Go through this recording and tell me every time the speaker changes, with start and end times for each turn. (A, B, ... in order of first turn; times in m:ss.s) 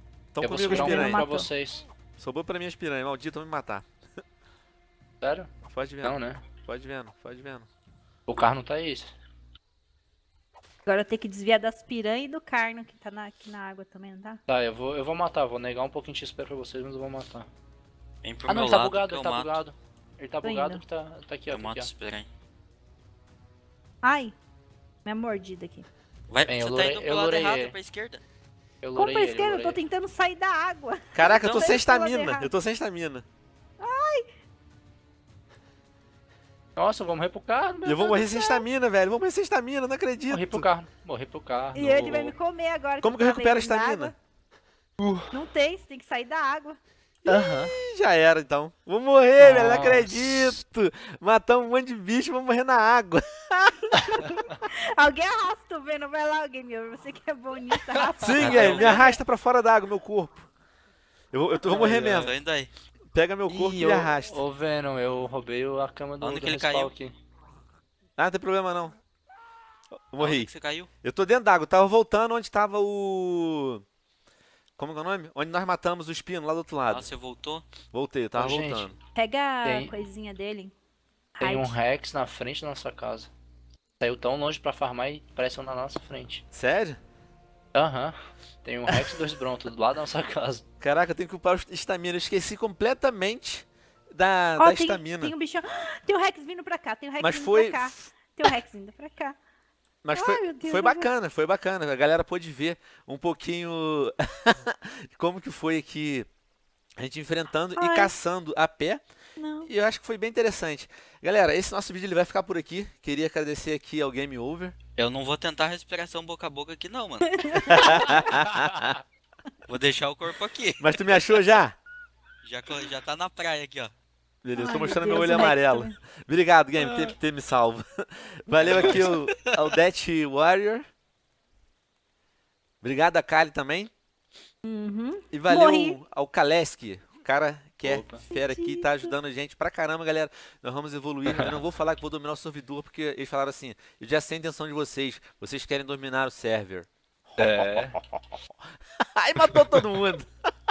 0:00.4-0:01.3 A
0:00.4-0:01.9 B
0:00.7-0:01.5 C
0:02.2-0:03.9 A
0:05.2-0:05.5 B
0:05.7-0:07.7 A
0:06.0-0:06.6 B
0:08.3-0:09.1 B
0:10.9-0:14.4 C
0:14.5-0:17.5 B
0:18.2-0:19.6 D
0:18.4-0:21.9 B
0:20.4-0:20.8 C
0:21.5-0:22.3 D
0:24.0-0:24.4 C
0:25.0-0:25.9 C
0:26.3-0:28.2 D
0:26.5-0:27.8 B
0:28.8-0:29.8 B
0:29.0-0:32.5 C
0:31.1-0:33.3 A
0:33.8-0:34.2 C
0:36.8-0:38.3 B
0:37.8-0:40.7 A
0:38.1-0:38.7 C
0:40.3-0:42.4 B
0:41.7-0:44.1 C
0:43.0-0:44.1 A
0:45.0-0:45.4 B
0:45.3-0:46.8 C
0:47.3-0:47.8 B
0:47.3-0:53.9 A
0:49.4-0:50.6 B
0:54.0-0:54.5 B
0:54.7-0:58.8 C
0:57.7-0:59.0 B
0:58.3-1:00.5 A
0:58.3-0:59.2 D
1:01.3-1:02.3 A
1:01.6-1:02.3 B
1:01.7-1:02.7 D
1:03.1-1:04.4 A
1:03.5-1:07.1 B
1:06.2-1:06.9 D
1:08.2-1:09.0 A
1:09.9-1:13.8 A
1:10.2-1:10.9 D
1:14.8-1:17.1 A
1:16.9-1:17.7 D
1:17.8-1:19.0 A
1:18.4-1:18.9 B
1:19.2-1:20.7 C
1:19.6-1:19.9 B
1:21.4-1:21.8 C
1:21.4-1:23.3 B
1:24.0-1:26.4 B
1:26.5-1:27.0 A
1:27.7-1:30.6 B
1:30.8-1:35.3 A
1:34.6-1:39.4 C
1:37.2-1:38.6 A
1:40.0-1:46.3 A
1:40.1-1:41.1 C
1:47.0-1:49.0 A
1:47.8-1:48.1 C
1:49.4-1:49.7 C
1:49.6-1:54.8 A
1:55.0-1:58.2 D
1:57.3-1:58.1 C
1:57.6-1:59.0 A
1:57.8-1:58.9 B
1:59.7-2:01.2 D
2:00.8-2:01.8 A
2:02.4-2:03.9 D
2:04.4-2:10.8 A
2:04.5-2:06.0 C
2:04.8-2:05.3 B
2:06.8-2:07.1 D
2:08.7-2:09.0 B
2:08.7-2:09.8 D
2:12.8-2:13.9 A
2:14.6-2:16.0 C
2:15.3-2:28.4 A
2:17.8-2:18.3 B
2:18.3-2:19.2 C
2:21.3-2:21.6 B
2:27.4-2:28.0 B
2:29.2-2:30.3 A